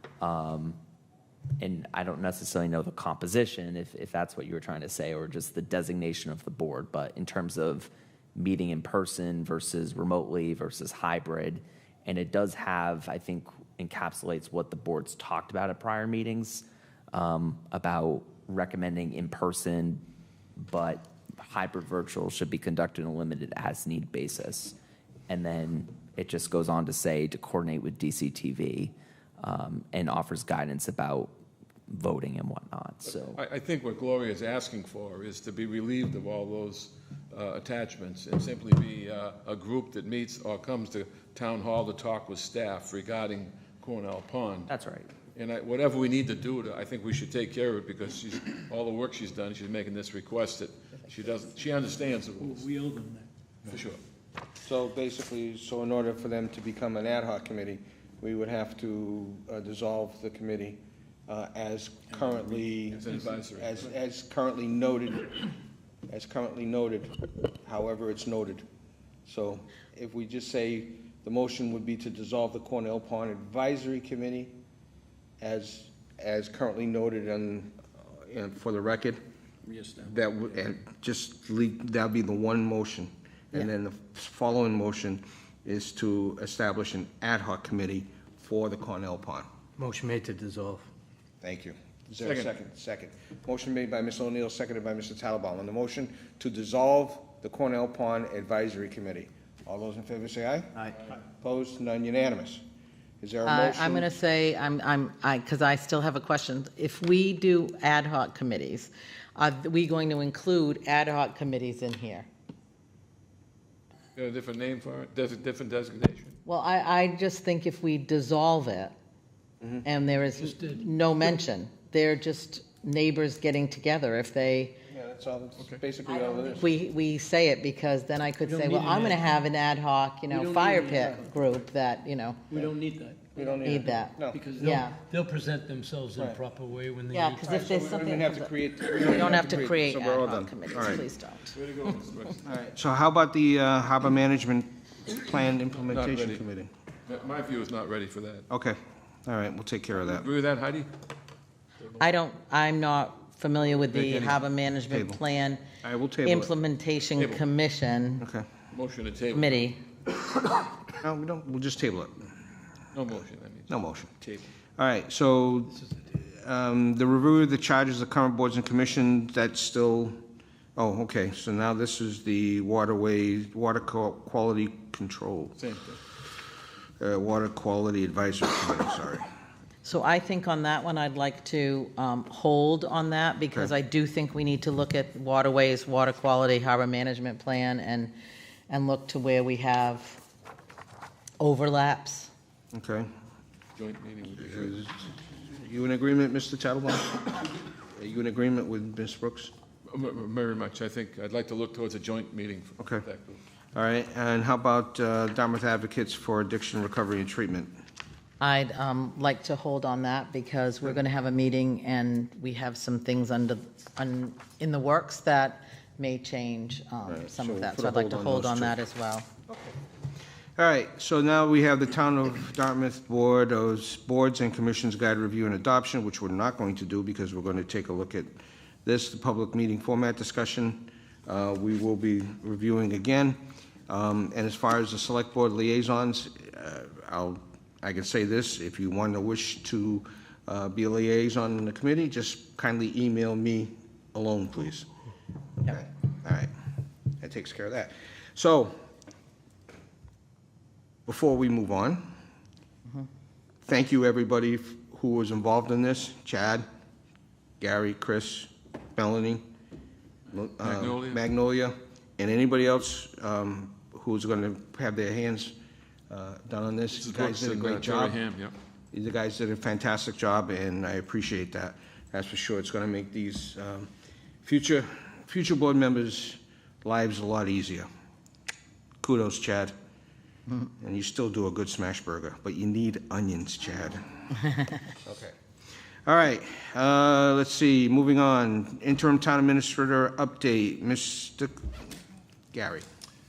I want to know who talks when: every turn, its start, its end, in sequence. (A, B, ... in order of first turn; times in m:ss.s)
0:00.2-0:00.8 A
0:01.6-0:20.0 A
0:20.6-0:24.7 A
0:25.3-0:31.3 A
0:31.9-0:33.4 A
0:33.3-0:44.7 B
0:44.7-0:45.1 A
0:45.4-0:52.7 B
0:52.4-0:53.3 C
0:53.7-0:54.0 B
0:54.6-1:05.5 D
1:02.9-1:03.9 B
1:06.1-1:08.7 D
1:09.2-1:14.6 D
1:15.4-1:19.2 D
1:19.7-1:20.0 B
1:20.0-1:29.5 D
1:29.8-1:30.9 C
1:31.4-1:42.6 D
1:32.2-1:32.5 B
1:43.2-1:44.1 D
1:43.4-1:52.3 E
1:54.2-1:56.4 B
1:56.5-1:59.0 E
1:59.8-2:04.8 E
2:00.4-2:00.8 C
2:04.9-2:06.8 D
2:06.1-2:12.6 E
2:08.4-2:09.3 C
2:10.3-2:11.5 C
2:12.5-2:17.8 C
2:13.4-2:14.4 D
2:13.6-2:15.0 E
2:17.1-2:21.6 E
2:17.5-2:21.0 D
2:21.5-2:22.5 B
2:22.4-2:26.7 D
2:25.9-2:26.4 B
2:27.1-2:28.5 B
2:28.5-2:30.3 D
2:30.1-2:30.9 B
2:31.9-2:35.7 E
2:33.9-2:35.2 D
2:35.8-2:36.5 D
2:36.2-2:38.2 E
2:37.2-2:37.4 B
2:38.2-2:38.5 D
2:38.7-2:39.6 B
2:39.3-2:39.8 E
2:41.0-2:42.3 D
2:42.9-2:44.5 B
2:43.7-2:44.1 D
2:44.8-2:50.2 D
2:50.8-2:55.6 D
2:55.6-2:56.0 B
2:57.0-2:59.3 D
2:59.8-3:08.1 E
3:08.7-3:10.2 E
3:11.4-3:12.3 E
3:12.7-3:13.1 D
3:13.8-3:14.8 B
3:14.5-3:19.5 D
3:19.9-3:23.4 B
3:23.7-3:27.7 D
3:28.4-3:39.3 E
3:37.0-3:38.8 D
3:39.5-3:39.8 D
3:40.6-4:04.9 D
4:05.6-4:06.5 D
4:07.2-4:08.8 D
4:11.1-4:12.1 D
4:13.6-4:16.7 D
4:17.6-4:19.5 D
4:20.3-4:25.6 D
4:20.6-4:21.2 B
4:26.1-4:28.2 D
4:27.0-4:28.6 B
4:28.9-4:33.9 D
4:34.4-4:37.9 D
4:39.0-4:39.8 D
4:40.8-4:44.4 D
4:45.0-4:45.4 D
4:46.0-4:51.8 D
4:52.5-4:52.9 D